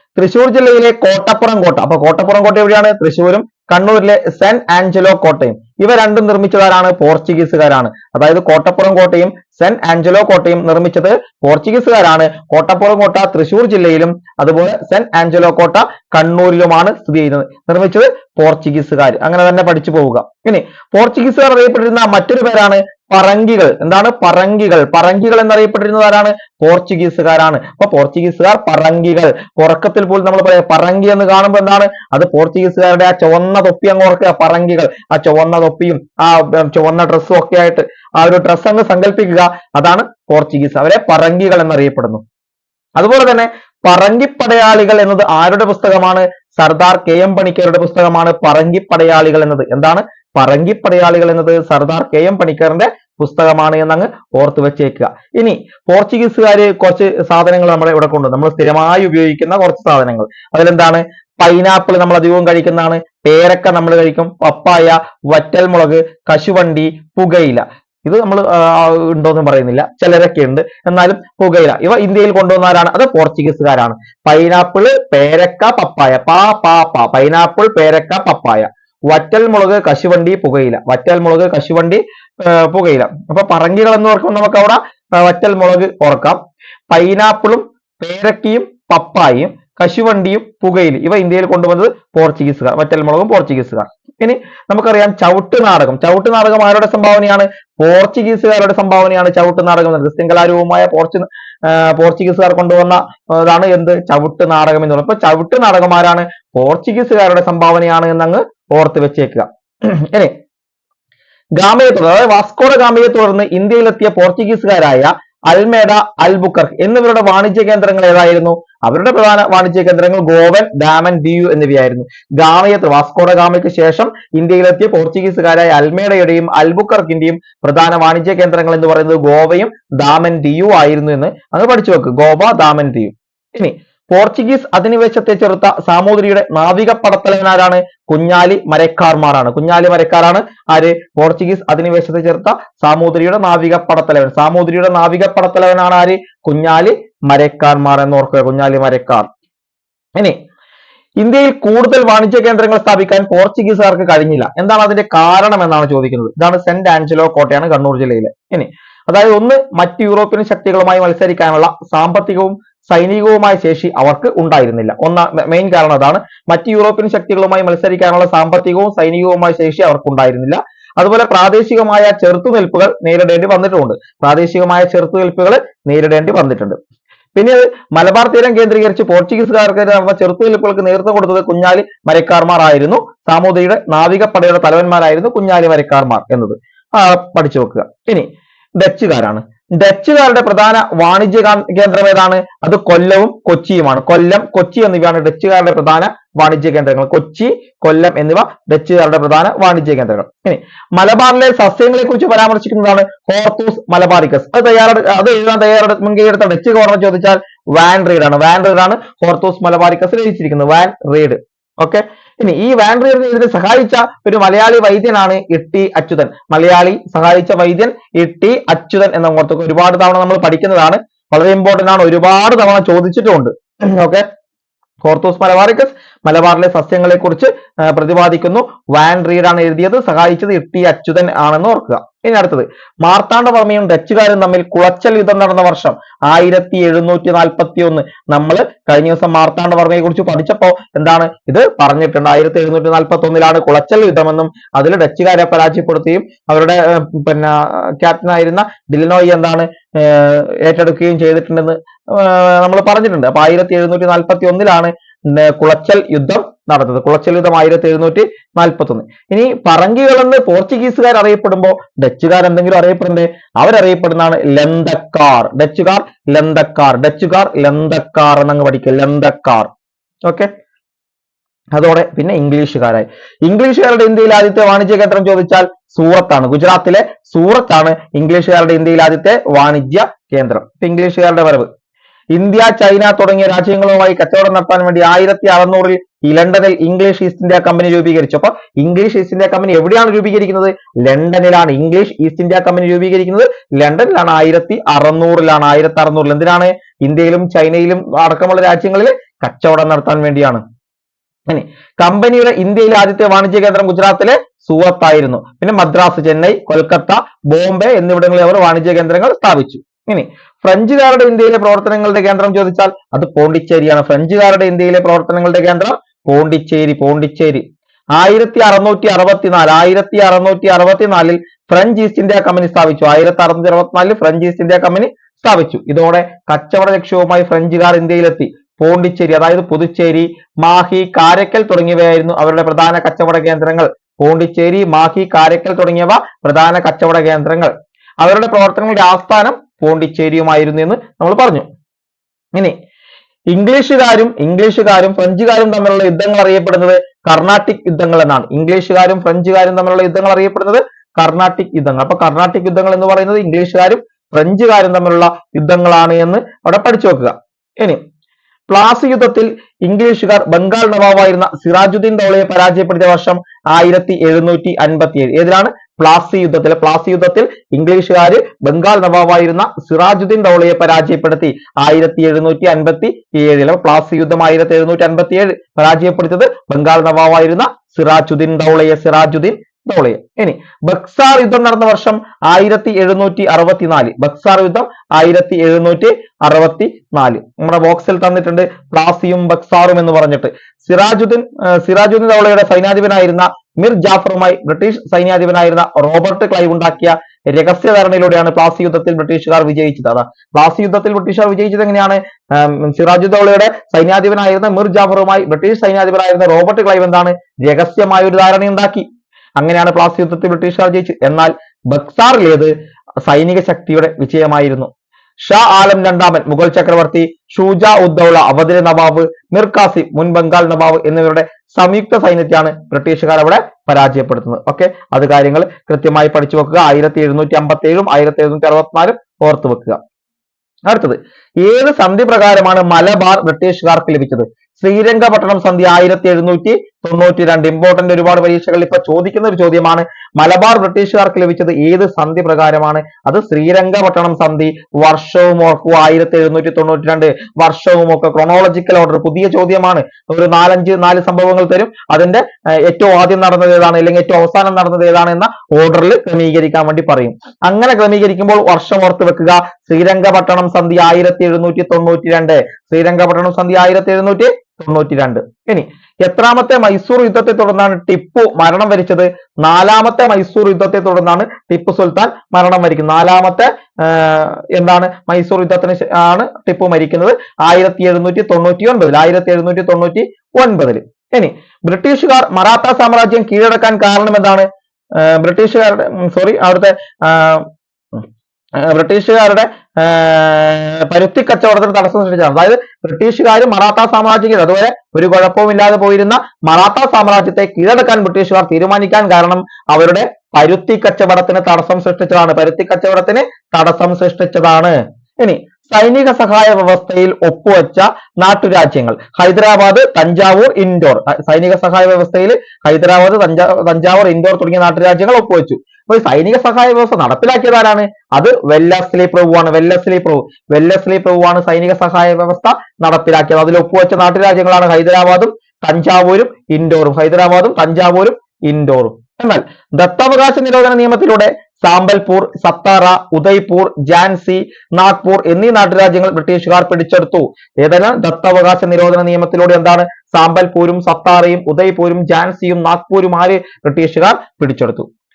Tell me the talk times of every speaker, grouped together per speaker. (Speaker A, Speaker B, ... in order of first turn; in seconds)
Speaker A: 0.2-42.2, 43.0-86.4, 86.9-110.3, 111.6-149.3, 151.2-176.8, 177.3-224.2, 225.0-269.7, 270.2-270.5, 271.7-281.7, 282.3-300.6, 301.5-317.6, 318.1-341.7, 343.5-358.0, 358.7-409.1, 409.6-412.7, 413.2-414.9, 415.4-430.0, 430.9-484.6, 485.2-488.2, 488.8-545.1